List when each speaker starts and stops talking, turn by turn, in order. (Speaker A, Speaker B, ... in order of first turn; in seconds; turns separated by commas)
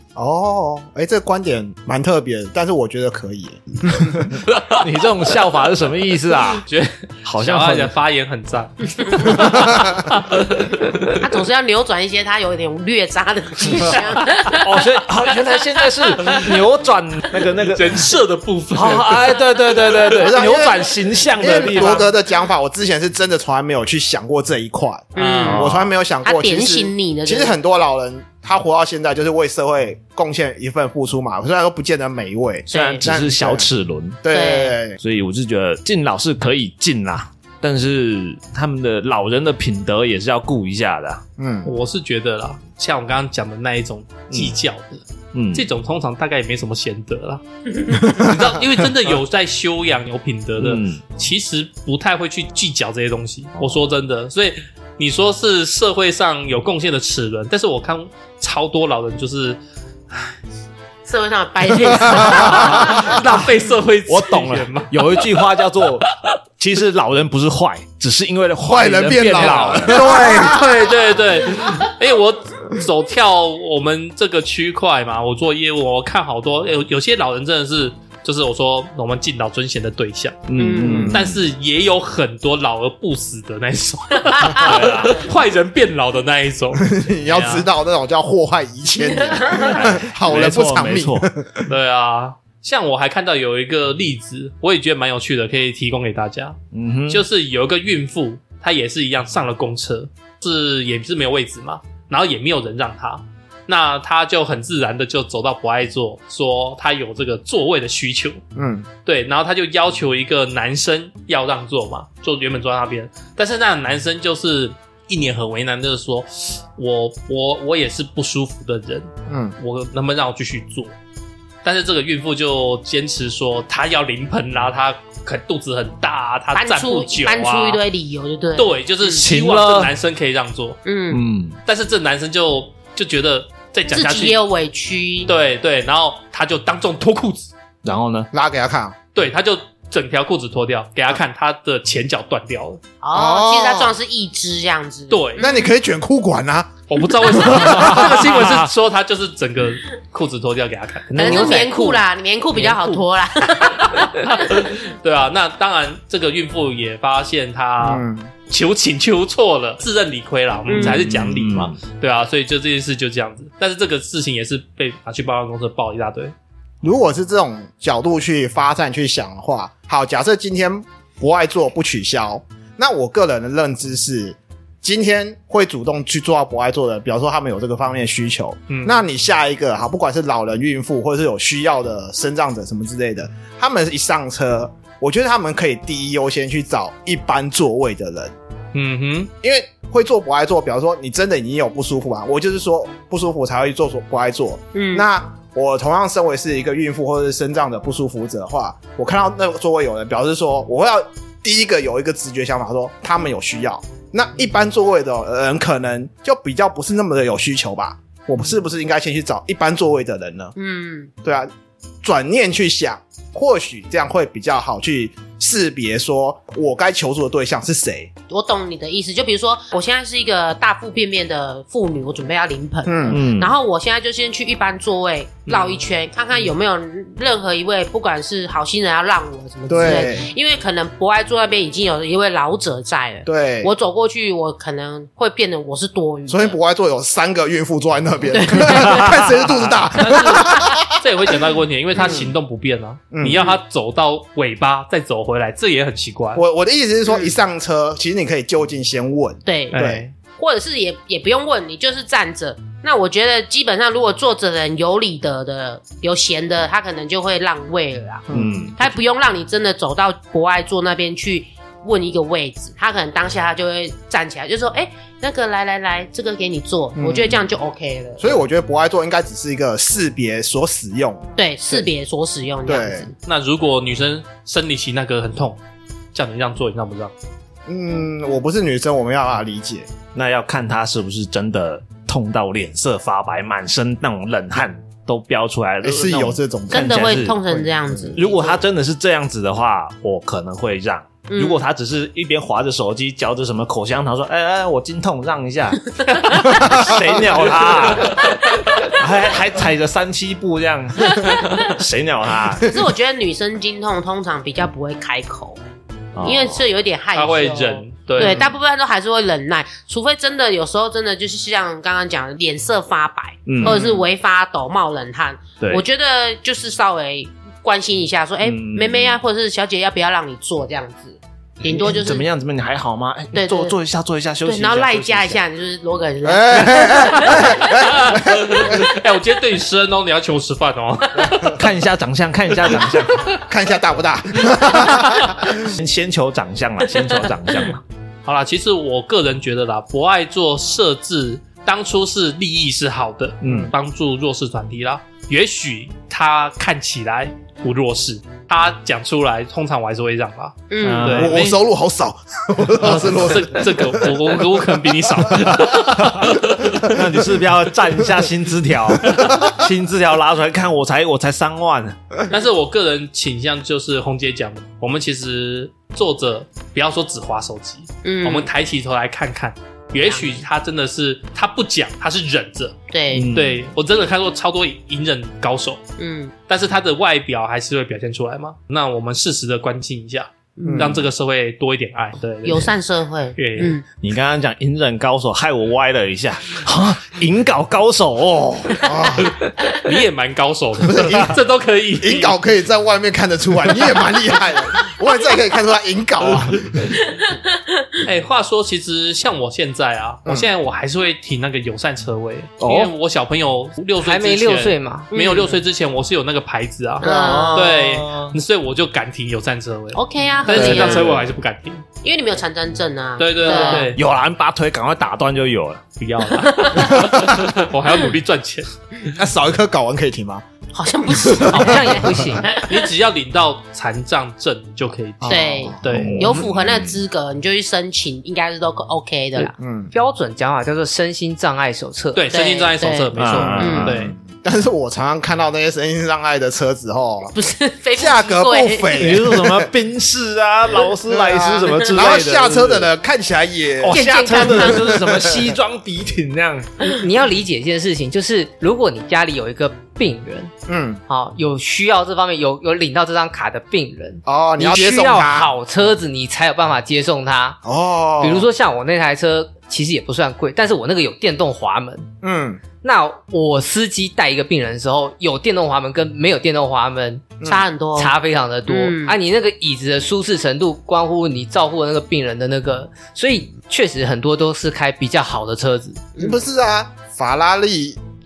Speaker A: 0.1-4.4, Speaker B: 4.7-6.7, Speaker C: 6.6-11.2, Speaker B: 7.2-7.9, Speaker D: 11.2-14.9, Speaker B: 14.5-18.1, Speaker C: 17.6-19.4, Speaker B: 18.7-22.1, Speaker A: 20.1-33.7, Speaker D: 21.4-22.1, Speaker D: 25.1-25.7, Speaker B: 25.2-25.9, Speaker D: 26.2-27.5, Speaker B: 32.7-34.2, Speaker D: 32.7-33.1, Speaker A: 34.2-35.0, Speaker D: 34.3-34.8, Speaker B: 35.0-41.2, Speaker A: 41.4-41.7, Speaker C: 41.6-59.6, Speaker B: 45.3-45.7, Speaker A: 48.0-48.4, Speaker B: 50.6-51.0, Speaker B: 53.6-53.8, Speaker D: 61.0-63.3, Speaker A: 61.9-62.9, Speaker C: 62.1-65.5, Speaker B: 64.1-66.1, Speaker B: 66.6-70.3, Speaker A: 68.6-70.8, Speaker C: 69.7-80.5, Speaker B: 80.5-81.4, Speaker D: 80.6-81.1, Speaker A: 80.8-81.2, Speaker C: 81.1-87.7, Speaker D: 84.4-84.8, Speaker B: 84.5-85.2, Speaker A: 86.8-91.7, Speaker D: 89.3-89.7, Speaker B: 89.7-91.3, Speaker C: 91.7-96.6, Speaker B: 96.7-97.2, Speaker C: 97.1-108.4, Speaker A: 108.6-108.9, Speaker C: 109.1-120.9, Speaker A: 119.3-119.5, Speaker C: 121.6-127.8, Speaker D: 126.5-129.2, Speaker C: 128.6-130.8, Speaker B: 129.2-129.9, Speaker D: 130.8-131.2, Speaker B: 131.1-131.6, Speaker C: 131.7-134.4, Speaker D: 133.9-135.3, Speaker C: 135.3-137.5, Speaker B: 137.8-138.3, Speaker A: 138.3-139.0, Speaker C: 139.2-142.8, Speaker D: 143.0-145.7, Speaker A: 143.1-143.9, Speaker C: 145.1-145.4, Speaker A: 145.4-148.2, Speaker C: 146.9-151.7, Speaker B: 147.5-148.6, Speaker E: 151.1-152.0, Speaker D: 151.2-154.7, Speaker C: 152.6-153.0, Speaker C: 153.6-166.3, Speaker A: 157.8-158.3, Speaker D: 160.7-161.0, Speaker B: 160.7-161.8, Speaker A: 166.8-188.3, Speaker C: 178.7-179.0, Speaker C: 188.7-189.3, Speaker A: 189.4-210.5, Speaker D: 194.7-195.1, Speaker D: 210.6-211.1, Speaker A: 211.2-211.5, Speaker A: 212.0-218.1, Speaker D: 218.3-236.6, Speaker A: 222.9-223.2, Speaker B: 223.1-223.6, Speaker C: 225.5-225.8, Speaker A: 229.7-230.3, Speaker A: 233.2-233.7, Speaker A: 236.3-241.0, Speaker D: 238.3-239.4, Speaker C: 240.0-246.4, Speaker D: 240.1-240.5, Speaker D: 241.9-242.2, Speaker A: 242.0-242.3, Speaker A: 243.1-243.5, Speaker A: 246.3-250.1, Speaker D: 247.1-247.3, Speaker D: 249.5-249.8, Speaker C: 249.7-250.1, Speaker D: 250.3-268.4, Speaker A: 258.3-258.7, Speaker B: 258.3-258.8, Speaker A: 267.0-267.4, Speaker A: 268.2-271.9, Speaker D: 271.4-273.1, Speaker A: 272.7-273.1, Speaker C: 273.3-275.6, Speaker C: 276.1-277.1, Speaker A: 277.7-279.9, Speaker B: 280.1-287.4, Speaker A: 285.8-287.0, Speaker D: 286.7-288.6, Speaker A: 287.5-288.1, Speaker B: 288.1-302.7, Speaker D: 291.3-291.6, Speaker D: 301.1-301.7, Speaker D: 302.6-305.6, Speaker B: 306.1-306.6, Speaker D: 306.2-322.3, Speaker C: 307.1-308.5, Speaker B: 308.2-308.5, Speaker B: 313.5-313.8, Speaker A: 313.6-314.0, Speaker B: 315.6-315.8, Speaker B: 318.4-319.2, Speaker B: 321.6-325.4, Speaker D: 323.3-323.8, Speaker D: 324.4-327.9, Speaker A: 326.2-328.7, Speaker C: 327.7-331.6, Speaker B: 331.5-333.3, Speaker A: 333.4-335.6, Speaker B: 335.5-337.8, Speaker C: 338.2-351.6, Speaker B: 343.4-343.7, Speaker A: 343.4-343.7, Speaker D: 350.7-351.3, Speaker B: 350.8-351.3, Speaker A: 351.1-354.2, Speaker C: 352.8-356.9, Speaker B: 355.6-362.0, Speaker C: 362.3-372.8, Speaker D: 368.0-368.5, Speaker D: 370.0-370.4, Speaker D: 372.9-373.4, Speaker B: 373.1-373.6, Speaker C: 373.3-375.8, Speaker D: 376.0-376.3, Speaker C: 376.5-382.8, Speaker D: 380.6-381.0, Speaker A: 380.7-381.1, Speaker D: 382.4-383.8, Speaker C: 383.4-383.8, Speaker B: 384.0-388.9, Speaker A: 388.8-389.3, Speaker C: 389.7-392.4, Speaker A: 390.9-391.4, Speaker A: 392.0-396.9, Speaker C: 398.0-411.8, Speaker E: 402.6-402.9, Speaker E: 404.0-405.1, Speaker D: 405.1-405.6, Speaker D: 407.0-407.8, Speaker B: 407.1-408.4, Speaker A: 407.1-407.5, Speaker D: 409.9-411.2, Speaker B: 410.5-411.2, Speaker D: 412.0-413.9, Speaker C: 413.2-414.0, Speaker E: 413.4-413.9, Speaker B: 413.9-415.9, Speaker C: 416.0-418.7, Speaker D: 416.4-417.0, Speaker A: 416.8-417.4, Speaker A: 419.1-420.4, Speaker D: 420.8-422.9, Speaker A: 421.2-422.3, Speaker E: 421.5-422.5, Speaker C: 422.6-426.3, Speaker A: 425.2-426.2, Speaker D: 425.3-429.5, Speaker B: 425.9-427.0, Speaker E: 429.4-432.3, Speaker A: 429.6-429.9, Speaker C: 432.1-434.1, Speaker D: 432.3-433.9, Speaker B: 433.2-433.9, Speaker A: 433.4-437.3, Speaker D: 437.3-439.2, Speaker A: 438.0-439.7, Speaker B: 439.0-442.9, Speaker A: 441.1-445.5, Speaker D: 441.6-442.1, Speaker B: 443.8-446.7, Speaker D: 443.9-445.0, Speaker E: 446.8-450.5, Speaker A: 450.7-451.0, Speaker E: 451.1-457.6, Speaker A: 454.2-455.5, Speaker A: 457.6-458.5, Speaker E: 458.2-462.1, Speaker A: 462.2-462.6, Speaker E: 462.8-467.3, Speaker A: 467.4-467.6, Speaker D: 467.4-468.1, Speaker E: 468.0-476.1, Speaker D: 468.7-469.2, Speaker A: 476.2-478.0